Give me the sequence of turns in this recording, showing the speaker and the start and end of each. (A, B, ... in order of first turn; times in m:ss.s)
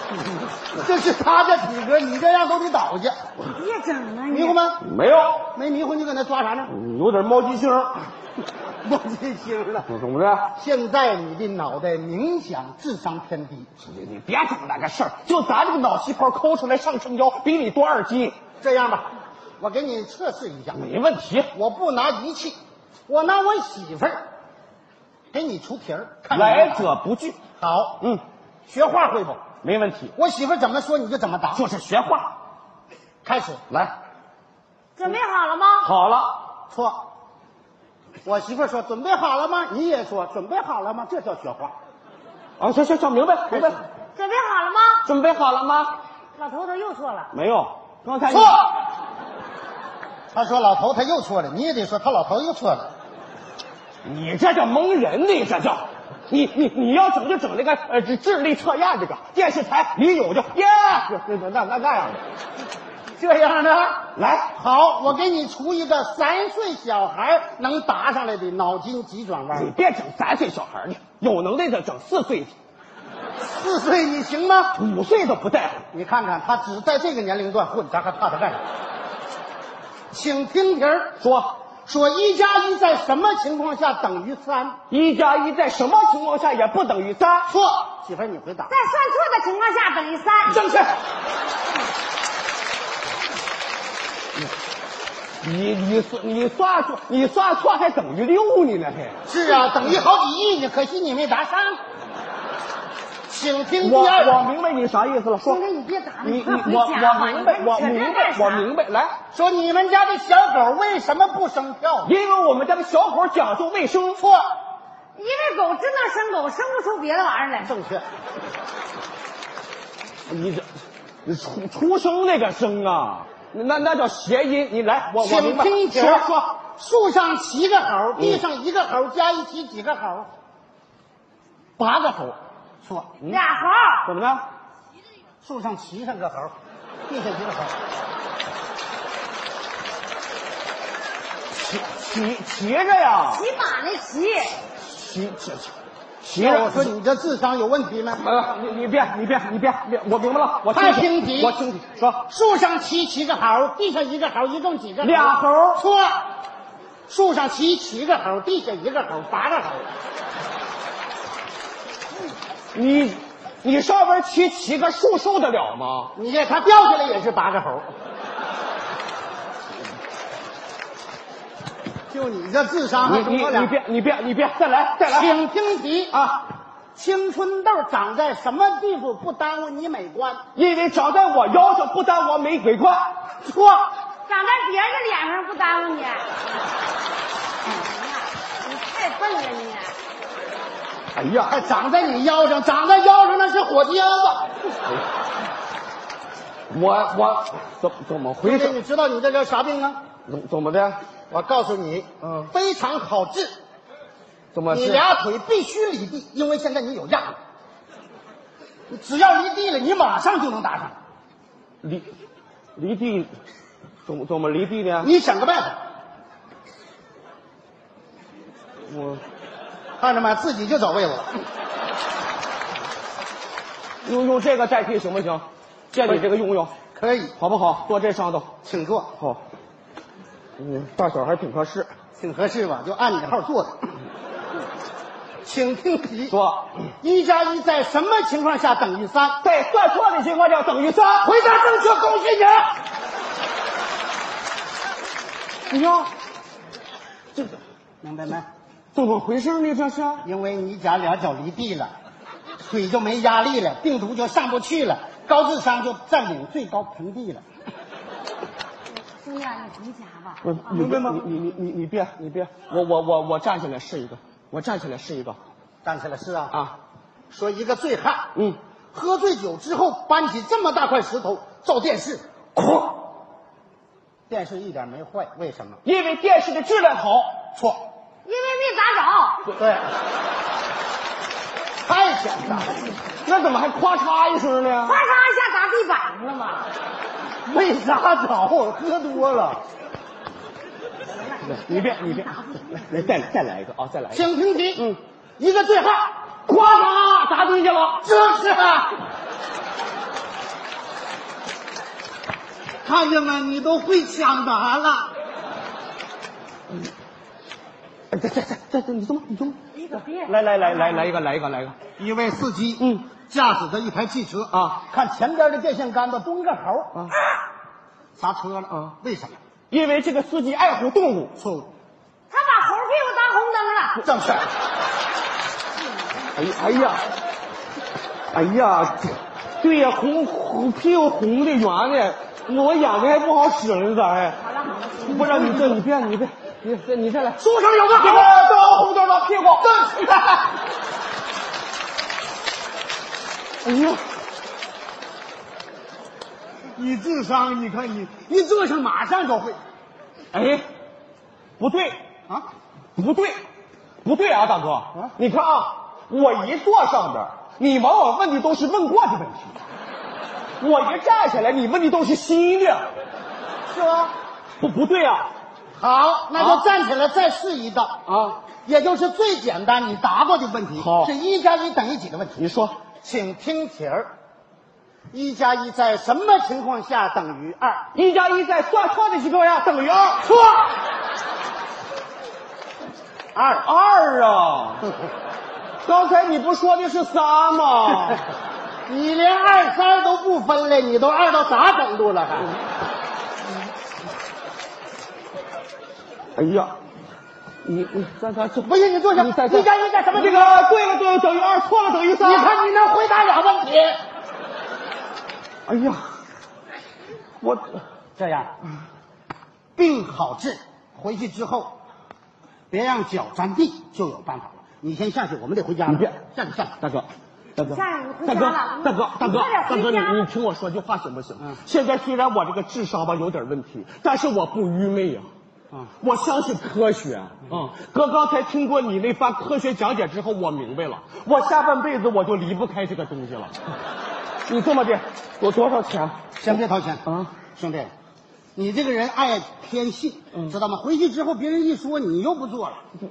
0:00.7-0:03.2 A
0:03.4-0:04.6 B
0:04.3-0:04.8 A
0:04.8-0:05.4 C
0:05.5-0:06.7 A
0:06.7-0:08.1 C
0:08.8-0:09.9 A
0:09.9-0:10.5 C
0:10.5-0:13.7 A
0:13.8-0:18.4 C
0:18.6-0:19.1 A
0:19.6-0:20.9 A
0:20.7-0:21.5 C
0:21.5-0:24.2 A
0:25.3-0:26.9 A
0:26.3-0:27.4 C
0:27.6-0:28.0 A
0:28.7-0:29.4 A
0:29.6-0:30.1 C
0:30.1-0:31.6 A
0:31.5-0:32.3 C
0:33.2-0:33.6 A
0:35.0-0:35.9 B
0:35.8-0:36.4 C
0:36.7-0:37.0 A
0:38.2-0:41.7 A
0:42.6-0:43.8 C
0:44.2-0:45.0 B
0:45.0-0:45.9 C
0:46.4-0:47.3 B
0:47.3-0:48.6 C
0:48.3-0:48.6 A
0:50.3-0:52.9 A
0:54.0-1:02.2 C
1:03.1-1:04.0 A
1:04.1-1:04.5 C
1:04.5-1:09.7 A
1:09.5-1:12.5 C
1:13.4-1:14.8 A
1:14.7-1:15.8 C
1:15.9-1:18.6 A
1:20.1-1:21.1 A
1:21.2-1:21.6 C
1:21.8-1:24.8 A
1:24.9-1:27.5 C
1:27.5-1:28.7 A
1:28.7-1:30.6 B
1:30.5-1:30.9 A
1:35.4-1:39.2 C
1:39.2-1:41.8 A
1:39.4-1:39.7 B
1:43.3-1:44.4 A
1:43.8-1:45.6 C
1:45.4-1:48.7 B
1:46.2-1:49.2 C
1:49.3-1:52.1 A
1:52.0-1:54.2 C
1:54.2-1:54.4 A
1:55.2-1:57.7 B
1:57.6-1:58.0 A
2:00.2-2:00.7 C
2:01.2-2:06.6 C
2:05.2-2:10.3 A
2:08.2-2:08.4 C
2:11.8-2:12.3 C
2:12.8-2:13.1 A
2:13.3-2:14.1 B
2:14.0-2:14.4 C
2:15.4-2:16.5 A
2:17.1-2:17.8 A
2:21.5-2:23.4 C
2:23.3-2:24.6 B
2:24.8-2:26.9 C
2:26.4-2:28.2 A
2:28.2-2:32.2 C
2:30.7-2:31.6 A
2:32.3-2:36.2 A
2:35.0-2:35.8 C
2:37.1-2:39.9 A
2:42.7-2:46.1 C
2:46.1-2:47.9 A
2:52.1-2:53.7 A
2:53.0-2:55.4 C
2:55.1-2:56.2 A
2:56.1-2:56.4 C
2:56.9-3:00.4 A
3:00.5-3:03.1 C
3:03.4-3:03.9 A
3:04.3-3:06.3 B
3:07.6-3:10.0 B
3:11.1-3:11.6 C
3:11.4-3:14.5 A
3:16.7-3:18.8 C
3:18.4-3:20.0 A
3:20.2-3:21.0 C
3:21.3-3:23.5 A
3:22.2-3:22.5 C
3:24.5-3:25.0 C
3:24.7-3:27.4 A
3:28.9-3:31.0 A
3:31.8-3:32.1 C
3:32.8-3:33.3 C
3:34.0-3:35.1 C
3:35.0-3:35.8 A
3:38.9-3:39.2 C
3:40.0-3:41.4 A
3:44.0-3:46.7 C
3:46.9-3:47.3 A
3:47.4-3:48.5 C
3:48.6-3:49.1 A
3:49.2-3:49.4 C
3:50.6-3:51.9 C
3:52.2-3:53.9 A
3:55.4-3:56.4 A
3:56.3-3:56.9 C
3:57.0-3:59.4 A
3:59.4-4:01.3 C
4:01.2-4:02.7 A
4:05.7-4:06.1 C
4:08.0-4:08.5 A
4:08.9-4:10.2 C
4:10.2-4:11.9 A
4:12.6-4:17.4 A
4:19.0-4:20.9 B
4:20.4-4:25.4 C
4:20.8-4:21.3 A
4:25.8-4:26.6 A
4:27.3-4:28.3 A
4:28.9-4:32.2 A
4:32.6-4:32.9 C
4:34.3-4:35.8 A
4:35.8-4:37.3 C
4:37.6-4:37.8 A
4:38.2-4:39.4 B
4:39.6-4:39.8 A
4:41.8-4:42.9 A
4:43.2-4:45.0 C
4:44.8-4:46.7 B
4:47.4-4:49.6 A
4:51.1-4:53.1 B
4:51.4-4:54.2 C
4:54.1-4:56.1 A
4:56.5-4:58.0 C
4:58.0-4:59.0 A
5:02.8-5:05.1 A
5:08.1-5:09.6 C
5:09.7-5:11.1 B
5:10.2-5:11.8 C
5:12.0-5:17.0 A
5:12.8-5:13.1 C
5:14.5-5:14.8 C
5:18.2-5:19.4 A
5:19.7-5:21.4 C
5:21.4-5:21.7 A
5:22.3-5:24.0 B
5:24.0-5:24.5 A
5:26.3-5:27.0 C
5:26.4-5:27.0 B
5:28.3-5:34.4 C
5:34.4-5:35.6 B
5:35.0-5:39.7 C
5:37.4-5:38.3 A
5:39.6-5:40.5 A
5:43.6-5:44.0 C
5:46.7-5:49.6 A
5:50.3-5:50.6 C
5:51.6-5:52.0 C
5:53.0-5:53.4 C
5:54.0-5:59.6 C
6:00.6-6:02.9 C
6:03.7-6:04.1 A
6:04.6-6:05.3 C
6:05.8-6:07.9 A
6:08.1-6:08.4 C
6:08.6-6:12.4 A
6:10.8-6:11.1 C
6:12.4-6:12.7 C
6:13.0-6:14.1 A
6:15.1-6:17.8 A
6:17.9-6:20.3 C
6:20.2-6:20.7 A
6:23.3-6:23.7 A
6:23.6-6:24.9 C
6:25.8-6:28.2 C
6:28.9-6:32.5 A
6:36.3-6:36.8 C
6:37.6-6:42.5 C
6:38.6-6:40.7 A
6:42.2-6:44.0 A
6:45.6-6:46.1 C
6:47.4-6:47.8 C
6:48.2-6:48.5 A
6:49.8-6:51.7 A
6:52.7-6:56.7 A
6:55.9-7:05.3 C
6:57.6-7:00.2 B
7:06.0-7:13.6 C
7:14.5-7:16.2 C
7:16.4-7:17.9 A
7:17.0-7:17.3 C
7:18.5-7:22.8 A